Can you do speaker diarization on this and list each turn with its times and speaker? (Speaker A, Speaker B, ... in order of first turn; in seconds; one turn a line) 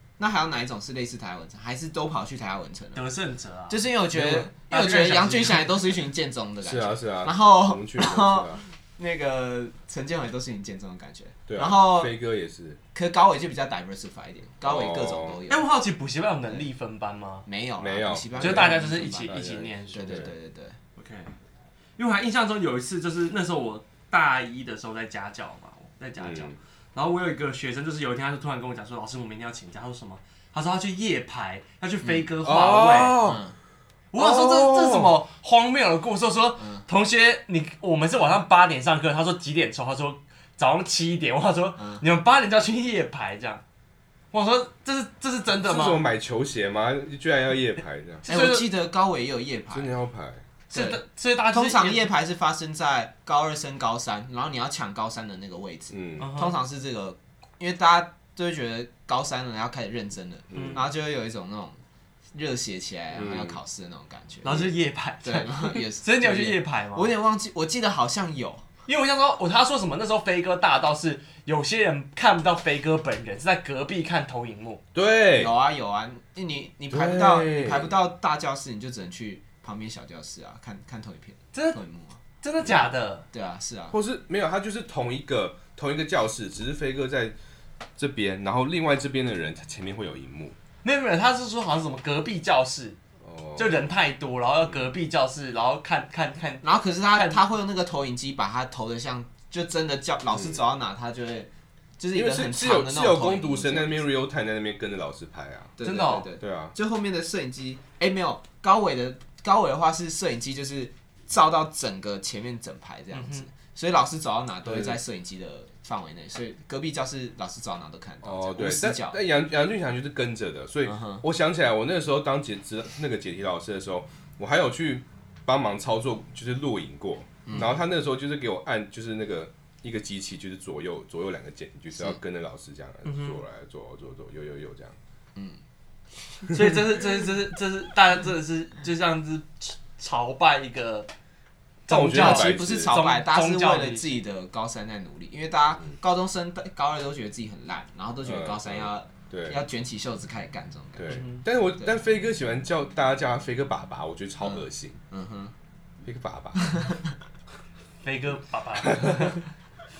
Speaker A: 0.2-3.1
Speaker B: 3.0-5.8
Speaker A: 3.7-12.1
Speaker C: 4.2-4.5
Speaker C: 6.6-8.6
Speaker C: 11.5-12.8
Speaker A: 12.9-15.7
Speaker C: 14.6-15.4
Speaker B: 15.5-17.5
Speaker A: 17.5-19.4
Speaker C: 17.8-20.3
Speaker B: 18.4-20.3
Speaker A: 19.9-20.8
Speaker B: 21.0-21.3
Speaker B: 22.0-33.2
Speaker C: 26.2-26.6
Speaker A: 32.0-32.3
Speaker C: 32.4-33.4
Speaker A: 33.2-33.6
Speaker B: 34.1-43.6
Speaker C: 34.2-35.1
Speaker A: 36.6-36.9
Speaker A: 41.8-42.0
Speaker B: 44.3-46.0
Speaker C: 45.6-48.2
Speaker B: 48.2-48.7
Speaker A: 48.3-49.9
Speaker C: 49.7-50.4
Speaker B: 50.7-52.1
Speaker A: 50.7-61.8
Speaker C: 55.9-56.3
Speaker B: 56.2-56.6
Speaker C: 60.5-60.9
Speaker B: 60.5-60.8
Speaker A: 62.3-64.7
Speaker C: 63.1-63.6
Speaker B: 64.4-67.1
Speaker A: 65.2-68.7
Speaker B: 68.9-74.8
Speaker C: 74.9-75.5
Speaker A: 75.3-82.2
Speaker C: 76.9-78.0
Speaker B: 81.5-81.8
Speaker B: 82.4-83.2
Speaker A: 83.3-84.0
Speaker C: 83.9-87.4
Speaker C: 88.0-90.6
Speaker B: 90.8-93.0
Speaker C: 93.2-93.9
Speaker B: 93.6-97.4
Speaker A: 96.6-104.0
Speaker C: 100.3-100.6
Speaker C: 102.1-105.8
Speaker A: 105.8-119.2
Speaker B: 105.8-106.3
Speaker C: 106.4-106.7
Speaker B: 113.1-113.5
Speaker C: 114.7-115.0
Speaker C: 118.2-135.0
Speaker A: 120.9-121.2
Speaker A: 127.5-127.7
Speaker B: 133.1-133.4
Speaker A: 135.4-135.6
Speaker B: 136.5-141.1
Speaker B: 141.9-144.2
Speaker C: 141.9-143.0
Speaker A: 141.9-151.2
Speaker C: 148.2-149.6
Speaker C: 151.0-155.0
Speaker B: 151.1-151.4
Speaker A: 154.4-155.5
Speaker C: 156.0-156.9
Speaker A: 156.6-157.0
Speaker B: 158.0-159.5